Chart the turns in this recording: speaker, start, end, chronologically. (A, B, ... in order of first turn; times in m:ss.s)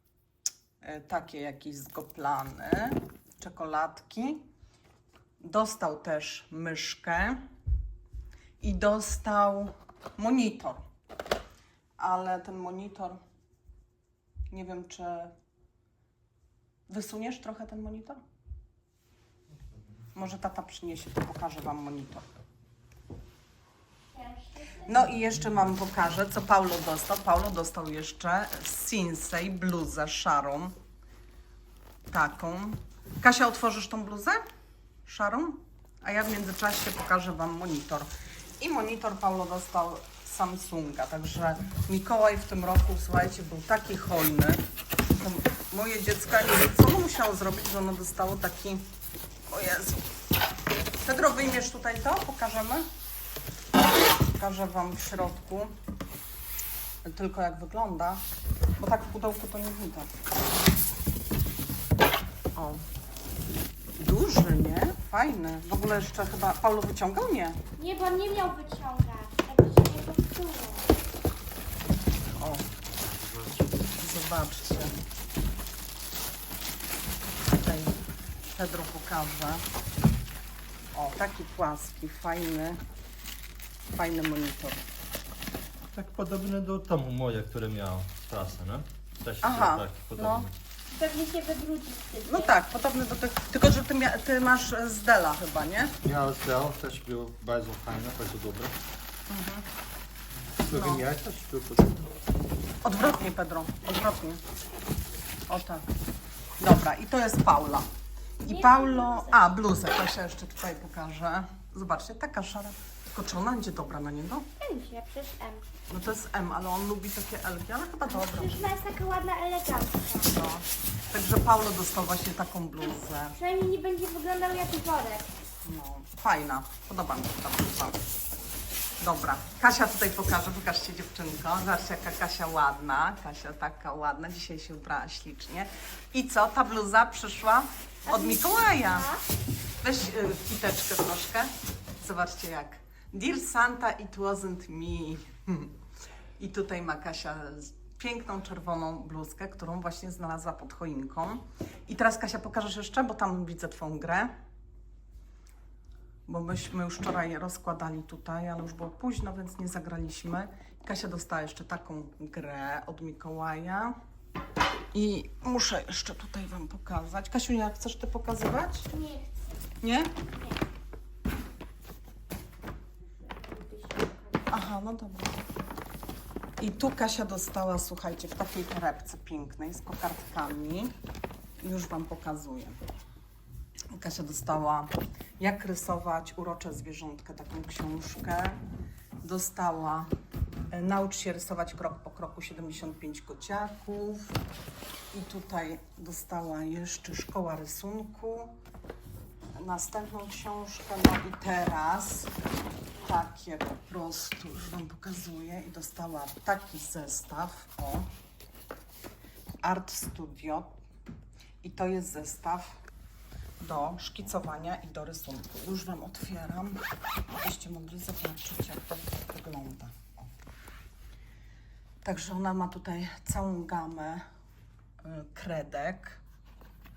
0:00.8-0:04.4 A
0:05.4-0:07.4 A
0:08.6-0:10.8 A
0:12.0-0:13.2 A
0:14.5-0:15.3 A
0:16.9-0:18.2 A
0:20.1-0:22.2 A
0:24.1-0:24.9 B
0:24.8-0:30.7 A
0:32.1-0:34.4 A
0:35.0-0:48.9 A
0:49.5-0:50.1 A
0:51.0-0:52.9 A
0:54.3-0:55.7 A
0:57.0-0:58.2 A
0:58.8-1:00.1 A
1:02.5-1:02.8 A
1:04.0-1:07.6 A
1:07.8-1:10.9 B
1:12.4-1:12.6 A
1:13.9-1:14.9 A
1:17.5-1:18.0 A
1:18.5-1:19.6 A
1:20.9-1:22.8 A
1:23.9-1:24.8 A
1:25.9-1:30.5 C
1:29.4-1:30.4 A
1:30.9-1:32.5 B
1:32.3-1:35.9 A
1:36.0-1:38.8 C
1:39.3-1:39.6 A
1:40.6-1:42.1 C
1:40.7-1:41.0 A
1:42.8-1:44.4 A
1:45.5-1:45.9 A
1:46.6-1:47.9 A
1:48.4-1:54.5 A
1:48.4-1:49.4 B
1:54.6-1:55.6 B
1:55.9-1:58.7 A
1:58.1-2:00.3 B
2:00.2-2:03.4 A
2:03.3-2:05.3 B
2:05.6-2:08.0 A
2:09.0-2:19.1 A
2:18.1-2:19.2 B
2:19.8-2:25.7 A
2:26.4-2:34.3 A
2:36.3-2:43.9 A
2:44.9-2:48.9 A
2:48.9-2:49.6 B
2:49.8-2:50.1 A
2:50.3-2:50.6 B
2:53.2-2:54.6 B
2:54.5-2:55.4 A
2:56.6-3:00.9 A
3:01.6-3:02.8 A
3:03.9-3:08.6 A
3:09.2-3:10.1 A
3:10.7-3:14.3 A
3:15.1-3:18.5 A
3:19.6-3:22.3 A
3:23.0-3:28.1 A
3:29.6-3:30.7 A
3:31.6-3:32.8 A
3:33.6-3:36.8 A
3:37.4-3:40.3 A
3:42.0-3:44.2 A
3:45.0-3:46.2 A